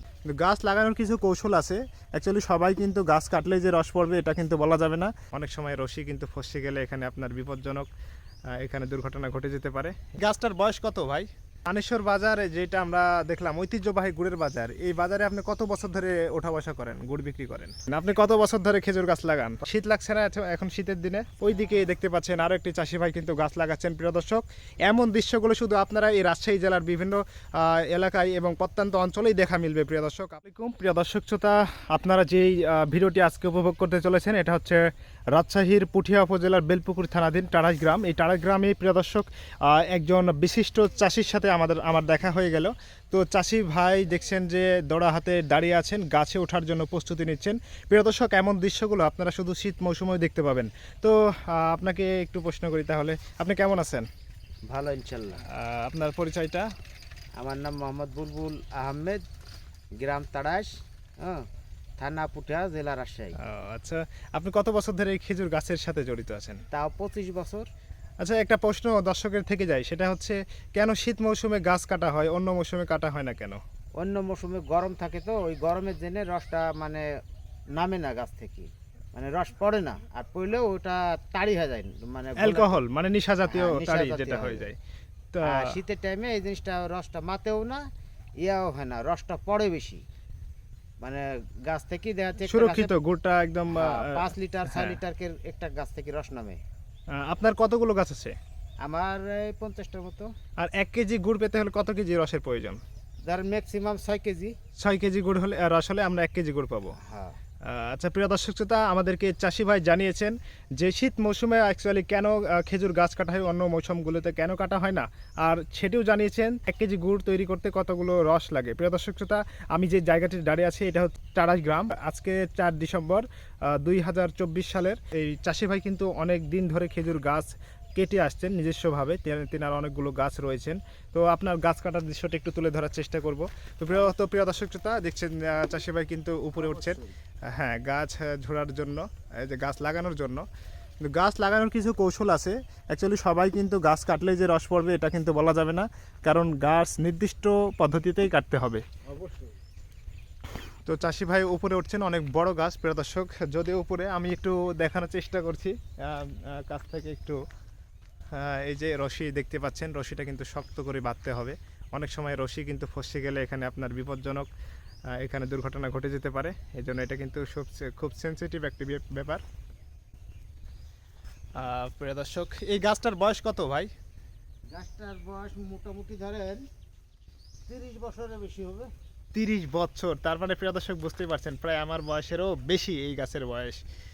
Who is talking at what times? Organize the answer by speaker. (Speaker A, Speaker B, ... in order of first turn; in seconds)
Speaker A: 0.3-7.9, 8.5-34.8, 35.3-54.1, 55.5-56.7, 63.4-66.6, 68.2-73.6, 82.4-84.8, 85.3-85.8, 92.4-95.0, 97.2-98.4, 100.6-102.8, 104.8-107.0, 107.7-140.4, 141.0-148.8, 150.8-157.4, 158.3-164.5, 165.2-169.4, 171.6-173.9, 179.3-183.8
Speaker B: 54.7-55.5, 57.4-59.2, 60.0-61.5, 62.0-63.4, 66.7-67.7, 74.0-77.0, 77.7-82.7, 83.4-84.7, 85.4-87.8, 88.4-90.0, 91.0-92.9, 93.7-96.6, 98.8-100.3, 103.2-104.5, 107.0-107.4, 136.6-137.1, 149.1-149.6, 174.7-176.6, 177.7-178.9